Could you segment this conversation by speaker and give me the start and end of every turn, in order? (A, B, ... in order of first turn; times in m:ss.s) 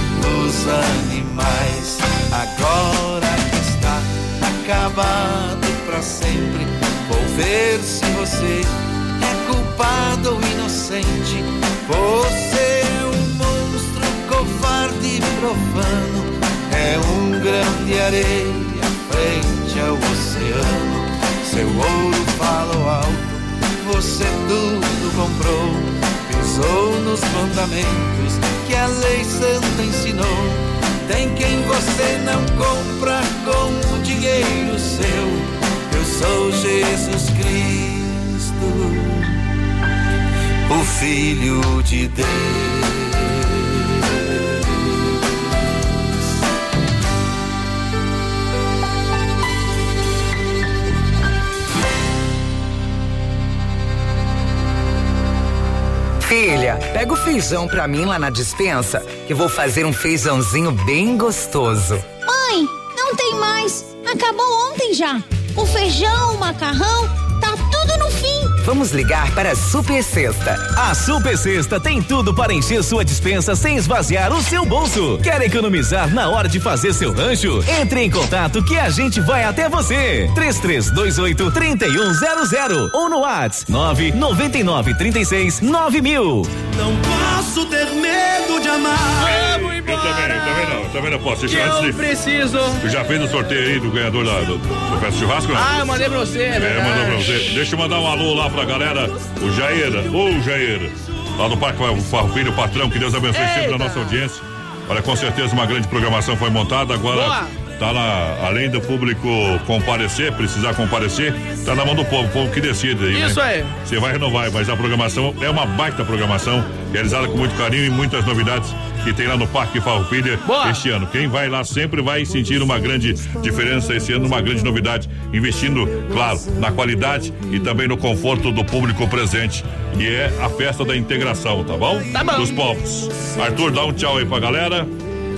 0:00.2-0:39.3 A
0:40.7-0:44.0 A
0:56.2-1:02.0 B
1:02.2-1:08.6 C
1:08.6-1:10.7 B
1:10.8-1:26.5 D
1:26.7-1:29.4 A
1:29.2-1:30.8 E
1:29.8-1:32.0 F
1:31.5-1:32.8 E
1:32.8-1:35.8 F
1:35.5-1:37.4 E
1:36.6-2:14.9 F
1:43.3-1:44.2 E
1:47.1-1:47.5 E
1:53.1-1:53.7 E
2:00.4-2:00.8 E
2:12.1-2:12.5 E